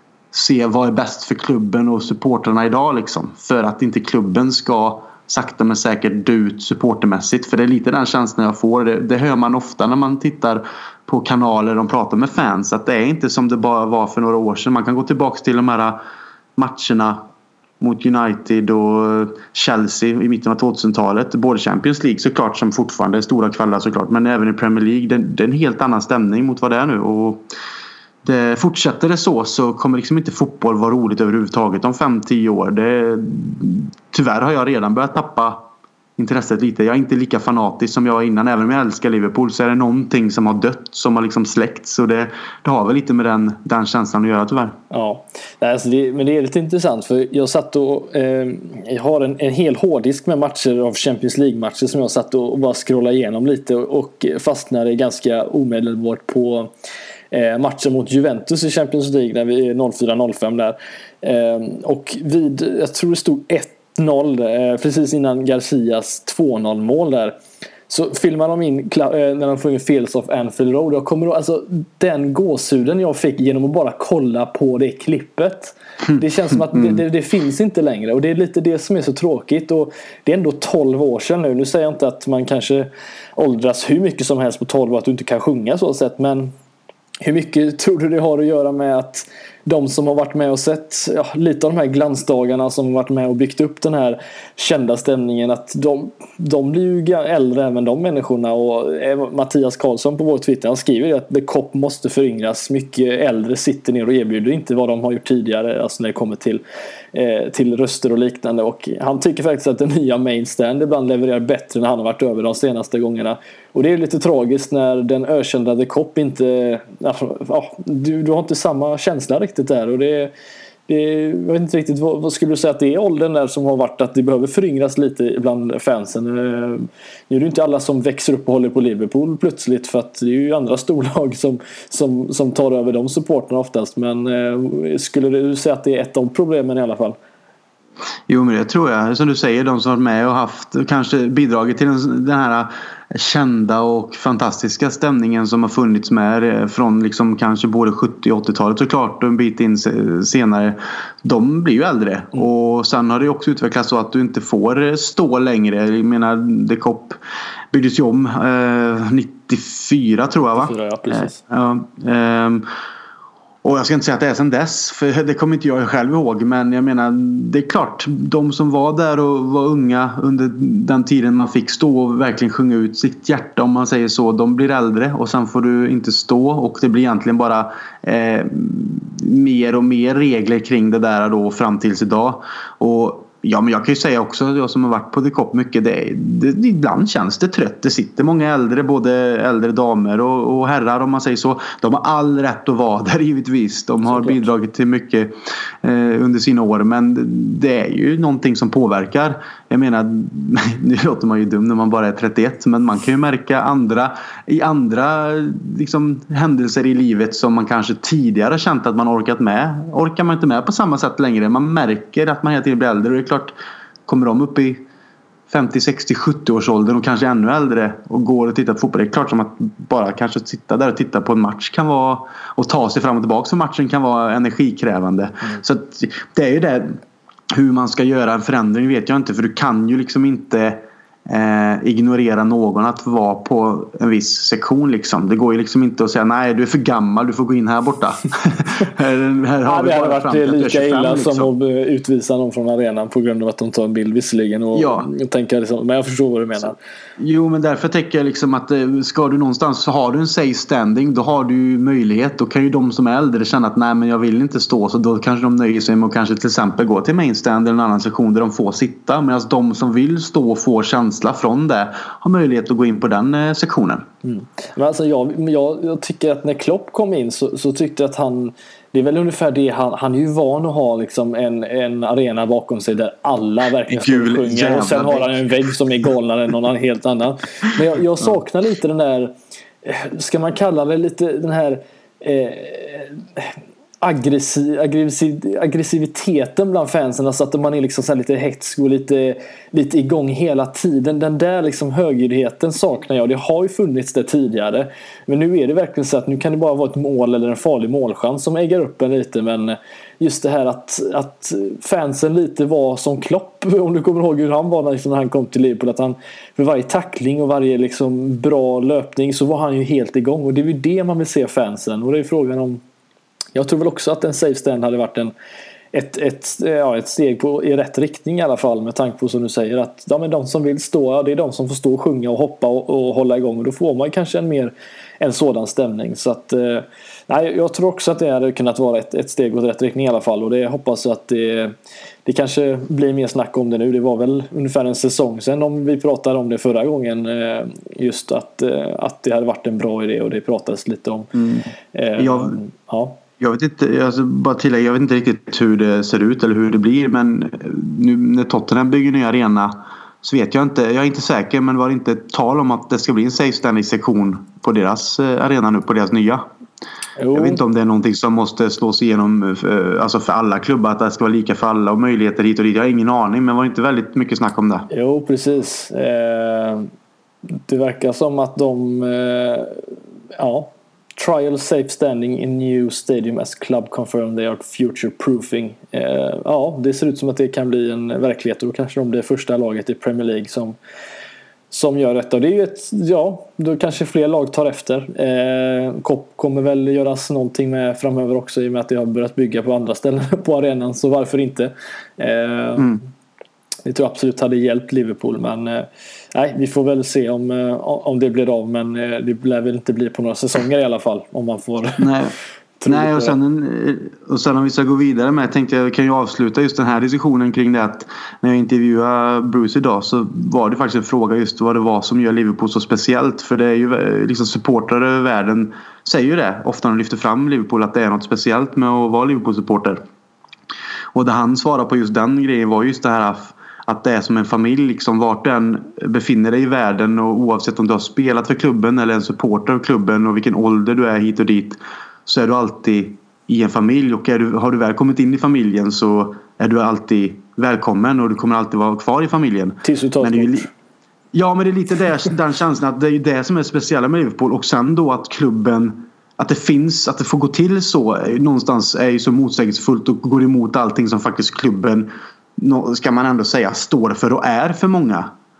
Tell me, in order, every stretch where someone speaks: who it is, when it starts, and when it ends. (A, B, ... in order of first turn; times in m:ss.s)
0:00.3-0:16.0 A
0:16.6-0:17.2 A
0:17.8-0:27.4 A
0:28.2-0:35.6 A
0:36.2-0:44.8 A
0:44.9-0:56.7 B
0:57.3-1:07.4 B
1:07.9-1:26.5 B
1:16.7-1:17.0 A
1:27.2-1:46.6 B
1:47.1-2:00.3 B
2:00.9-2:17.2 B
2:18.3-2:37.2 A
2:37.7-2:42.6 A
2:40.5-2:41.4 B
2:43.6-3:33.6 A
3:14.1-3:14.4 B
3:34.1-3:34.8 A
3:35.5-3:47.0 A
3:47.5-4:01.5 A
3:59.6-4:06.8 B
4:04.8-4:05.1 A
4:07.2-4:24.0 A
4:24.2-4:43.5 B
4:33.9-4:35.5 A
4:44.0-5:12.8 B
5:13.6-5:15.3 B
5:15.9-5:41.3 B
5:41.4-5:42.6 A
5:41.9-5:43.2 B
5:43.4-5:56.4 A
5:57.2-5:57.6 B
5:57.3-6:04.9 A
6:04.9-6:06.9 B
6:07.7-6:09.8 B
6:10.4-6:20.8 B
6:21.7-6:33.0 B
6:33.9-6:42.1 B
6:42.0-6:42.3 A
6:42.8-6:43.4 B
6:42.9-7:00.0 A
7:01.1-7:20.7 A
7:19.8-7:20.7 B
7:21.3-7:35.3 A